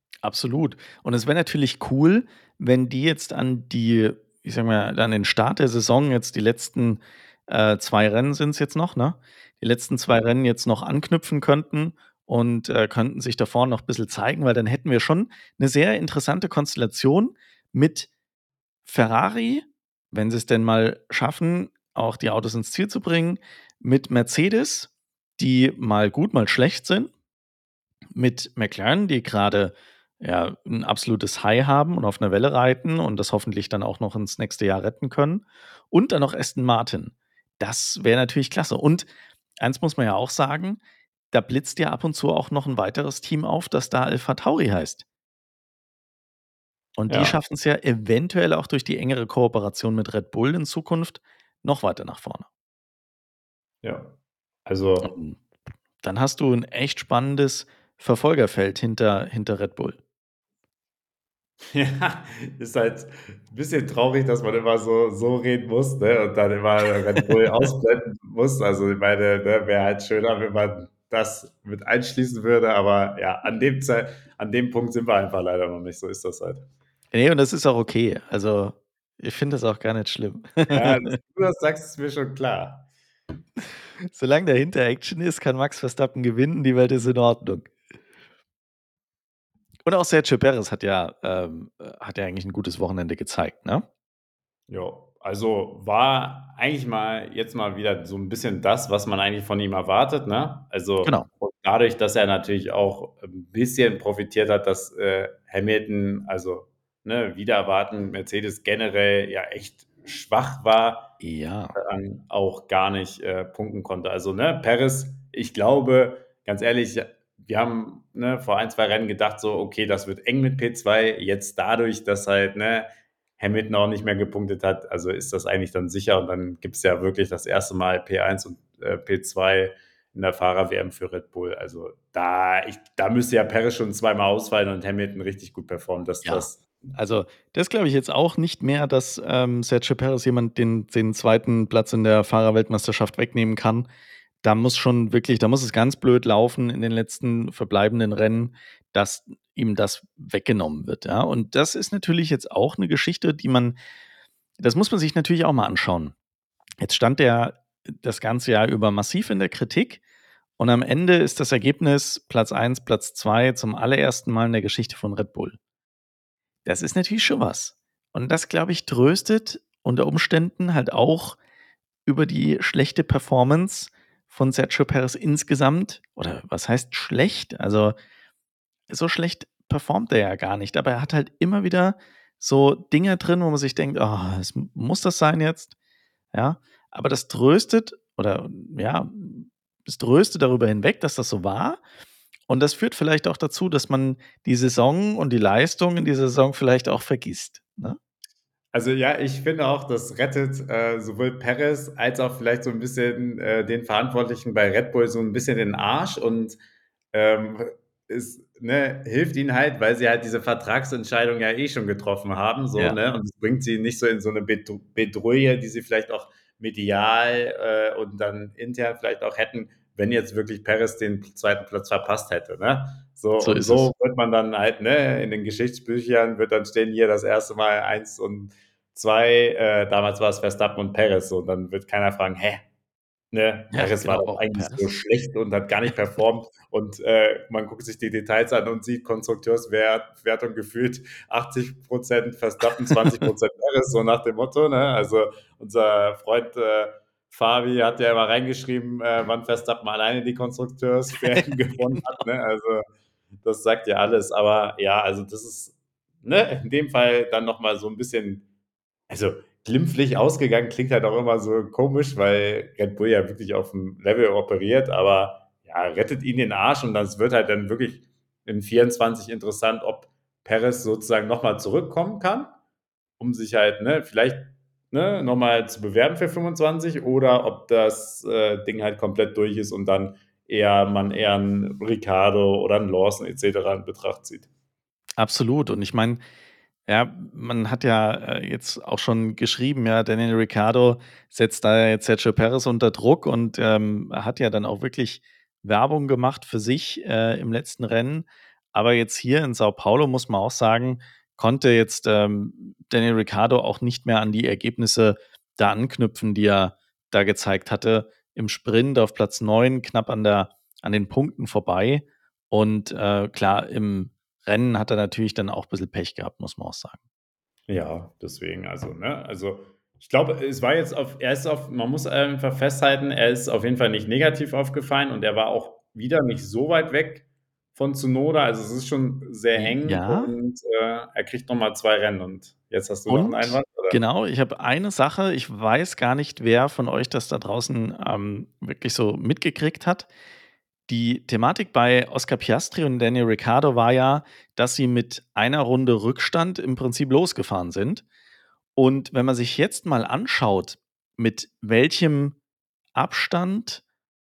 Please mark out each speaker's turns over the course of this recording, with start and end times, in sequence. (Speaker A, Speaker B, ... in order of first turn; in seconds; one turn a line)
Speaker A: 0.2-18.1
Speaker A: 18.9-27.1
Speaker A: 28.1-39.1
Speaker A: 39.6-40.8
Speaker A: 41.3-45.0
Speaker A: 47.0-52.5
Speaker B: 47.1-47.4
Speaker B: 53.8-54.1
Speaker B: 54.7-55.1
Speaker A: 55.0-55.4
Speaker A: 56.0-60.0
Speaker B: 61.7-76.7
Speaker A: 67.3-67.7
Speaker A: 77.1-81.2
Speaker B: 80.7-82.9
Speaker A: 84.1-87.7
Speaker A: 89.8-93.9
Speaker B: 94.7-111.1
Speaker A: 111.2-111.8
Speaker B: 111.8-136.6
Speaker A: 136.2-143.9
Speaker A: 144.4-153.8
Speaker A: 154.6-156.1
Speaker A: 156.8-160.0
Speaker A: 160.6-165.6
Speaker A: 166.6-171.4
Speaker A: 172.1-178.0
Speaker A: 178.9-185.8
Speaker A: 186.3-191.8
Speaker A: 192.5-198.0
Speaker B: 198.7-206.6
Speaker B: 207.1-232.6
Speaker A: 223.4-223.9
Speaker B: 233.3-252.8
Speaker A: 233.7-235.0
Speaker A: 242.7-243.3
Speaker A: 251.2-252.2
Speaker B: 253.4-258.4
Speaker B: 259.1-272.5
Speaker B: 273.2-284.5
Speaker A: 285.2-286.2
Speaker A: 286.9-317.0
Speaker B: 317.7-334.0
Speaker A: 329.6-330.3
Speaker A: 333.1-340.1
Speaker A: 340.9-348.0
Speaker A: 348.8-352.4
Speaker A: 353.0-353.8